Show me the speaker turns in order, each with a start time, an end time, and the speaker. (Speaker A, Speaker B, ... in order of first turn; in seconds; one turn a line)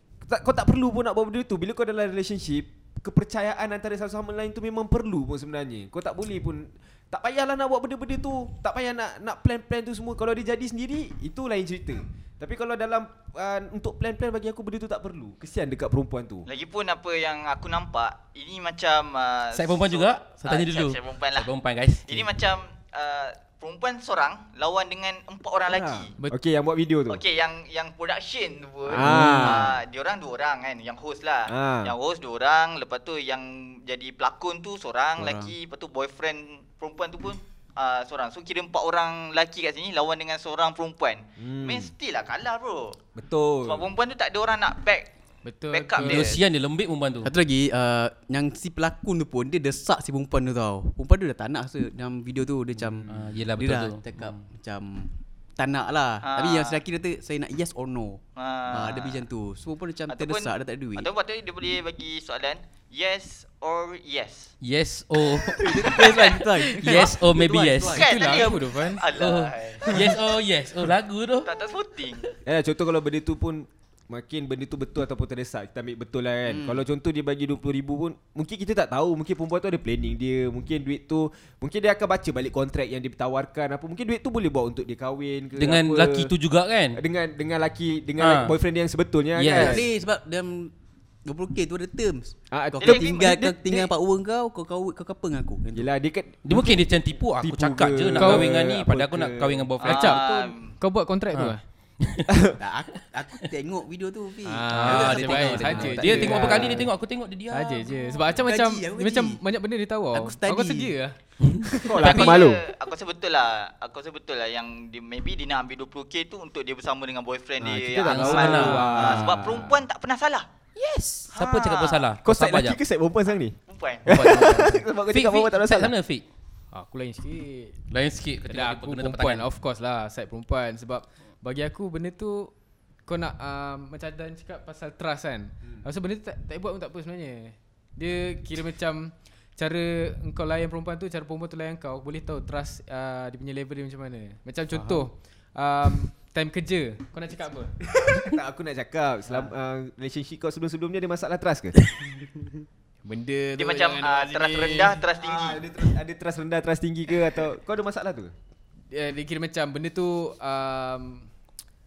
Speaker A: 0.2-16.5
Speaker B: 16.5-21.5
Speaker C: 19.5-22.3
Speaker B: 22.1-26.1
Speaker A: 25.6-27.2
Speaker B: 27.1-43.0
Speaker A: 28.9-29.8
Speaker D: 29.0-29.7
Speaker A: 31.5-31.9
Speaker D: 35.2-35.5
Speaker A: 41.4-41.9
Speaker A: 43.1-43.9
Speaker B: 43.6-45.1
Speaker E: 45.4-46.3
Speaker B: 45.7-46.4
Speaker C: 46.0-47.3
Speaker D: 47.2-61.1
Speaker C: 53.1-54.4
Speaker B: 56.2-56.8
Speaker B: 58.4-59.2
Speaker B: 60.1-64.5
Speaker C: 64.6-68.5
Speaker D: 65.5-68.5
Speaker B: 68.0-70.0
Speaker E: 68.0-69.1
Speaker C: 69.1-71.5
Speaker B: 71.4-72.3
Speaker A: 72.5-86.3
Speaker D: 76.5-76.8
Speaker C: 85.6-87.0
Speaker A: 86.9-89.9
Speaker C: 88.2-88.5
Speaker C: 89.3-89.8
Speaker D: 89.5-90.7
Speaker D: 91.2-95.9
Speaker A: 92.5-93.9
Speaker B: 92.8-93.3
Speaker A: 95.7-99.7
Speaker C: 96.5-100.2
Speaker E: 98.2-98.5
Speaker B: 99.8-100.7
Speaker E: 99.8-101.6
Speaker C: 101.3-102.3
Speaker A: 102.3-102.5
Speaker D: 102.6-106.7
Speaker E: 104.5-106.9
Speaker C: 104.8-108.2
Speaker A: 106.0-106.8
Speaker E: 107.5-111.2
Speaker D: 108.3-109.4
Speaker D: 110.1-111.0
Speaker C: 111.4-112.3
Speaker A: 111.7-112.6
Speaker B: 112.0-120.5
Speaker E: 117.6-119.8
Speaker A: 117.6-119.6
Speaker C: 118.0-119.2
Speaker C: 120.8-122.8
Speaker B: 121.3-122.1
Speaker A: 122.2-125.9
Speaker B: 123.7-124.2
Speaker C: 124.1-126.2
Speaker E: 126.7-127.8
Speaker C: 127.9-129.4
Speaker E: 128.5-132.5
Speaker E: 133.1-147.8
Speaker A: 147.8-151.8
Speaker E: 153.1-155.0
Speaker B: 153.6-155.6
Speaker A: 155.2-158.3
Speaker E: 158.9-161.3